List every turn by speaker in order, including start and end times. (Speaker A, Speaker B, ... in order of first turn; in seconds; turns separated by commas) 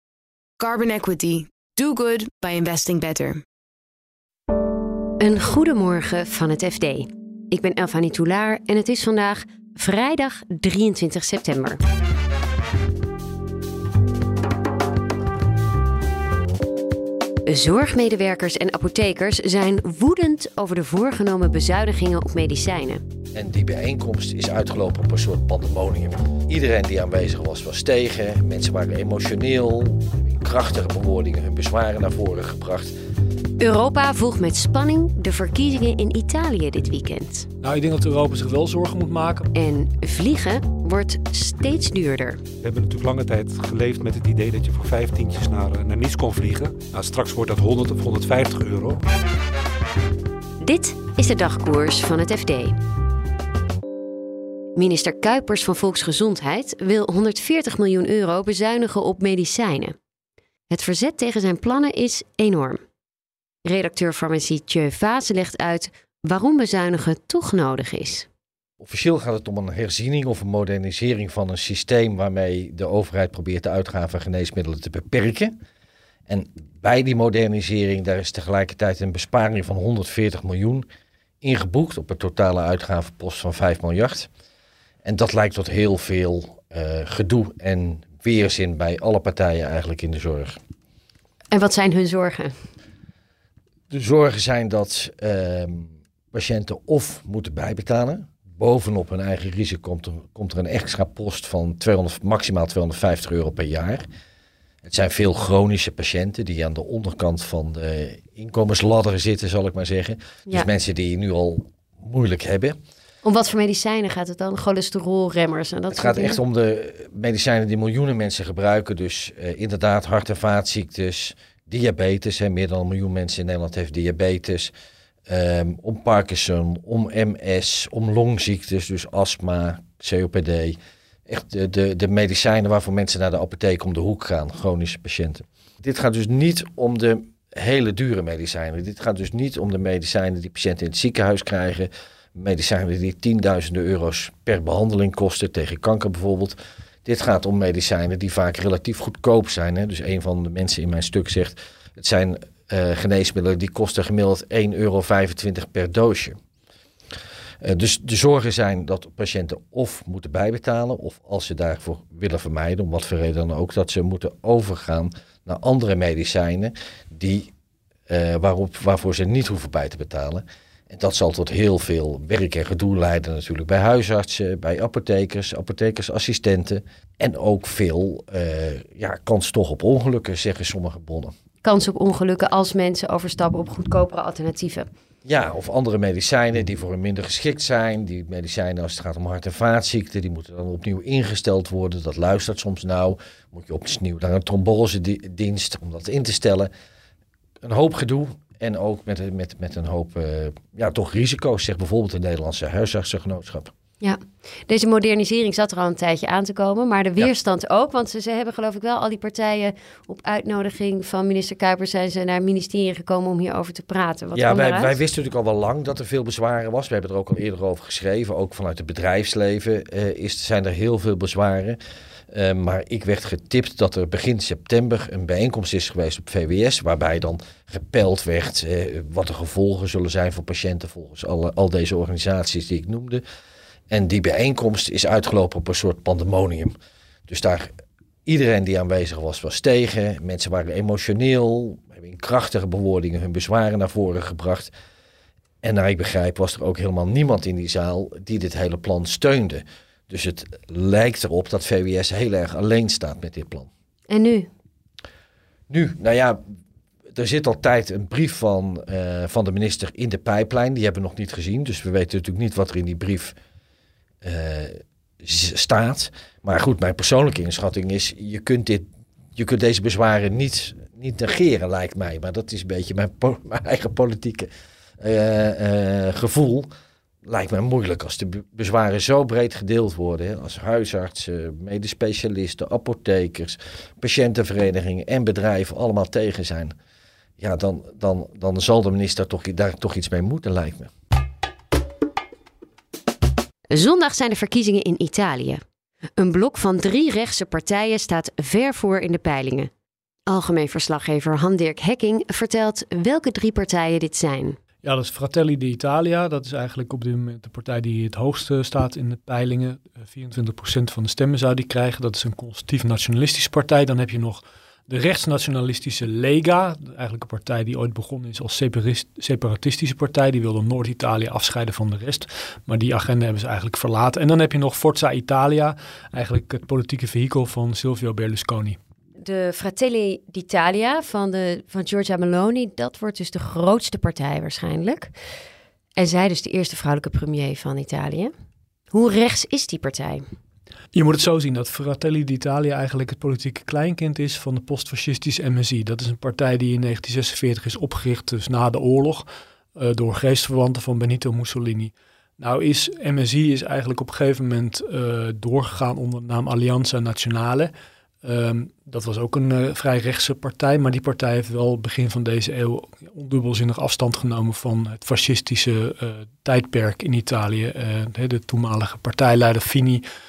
Speaker A: 0.6-3.4, Speaker B: 5.2-11.8, Speaker B: 17.5-23.0, Speaker C: 23.4-32.9, Speaker B: 33.6-37.5, Speaker D: 37.6-39.5, Speaker B: 39.5-42.4, Speaker E: 42.6-49.0, Speaker B: 50.6-52.8, Speaker B: 54.8-60.0, Speaker B: 60.7-62.8, Speaker B: 63.6-68.3, Speaker C: 68.8-75.5, Speaker C: 76.3-80.9, Speaker C: 81.4-84.3, Speaker C: 85.0-90.6, Speaker B: 91.5-92.5, Speaker C: 93.9-104.0, Speaker C: 104.8-112.8, Speaker B: 113.2-116.4, Speaker C: 115.9-124.7, Speaker C: 125.3-130.8, Speaker C: 131.3-156.4, Speaker C: 157.6-167.5, Speaker C: 168.1-181.3, Speaker B: 181.6-184.9, Speaker C: 185.2-196.7, Speaker C: 197.6-203.7, Speaker B: 204.0-215.0, Speaker C: 214.3-221.8, Speaker C: 222.3-233.2, Speaker C: 233.9-236.8, Speaker C: 237.3-237.7, Speaker C: 238.3-244.7, Speaker C: 245.6-253.7, Speaker B: 254.1-254.5, Speaker C: 255.7-256.4, Speaker C: 257.1-263.4, Speaker C: 264.2-276.7, Speaker C: 277.3-286.7, Speaker C: 287.4-290.9, Speaker B: 293.7-295.6, Speaker B: 296.2-299.7, Speaker B: 300.3-304.6, Speaker D: 304.8-328.8, Speaker B: 329.2-335.1, Speaker B: 336.0-338.3, Speaker B: 338.9-340.2, Speaker D: 340.9-357.7, Speaker D: 358.2-370.1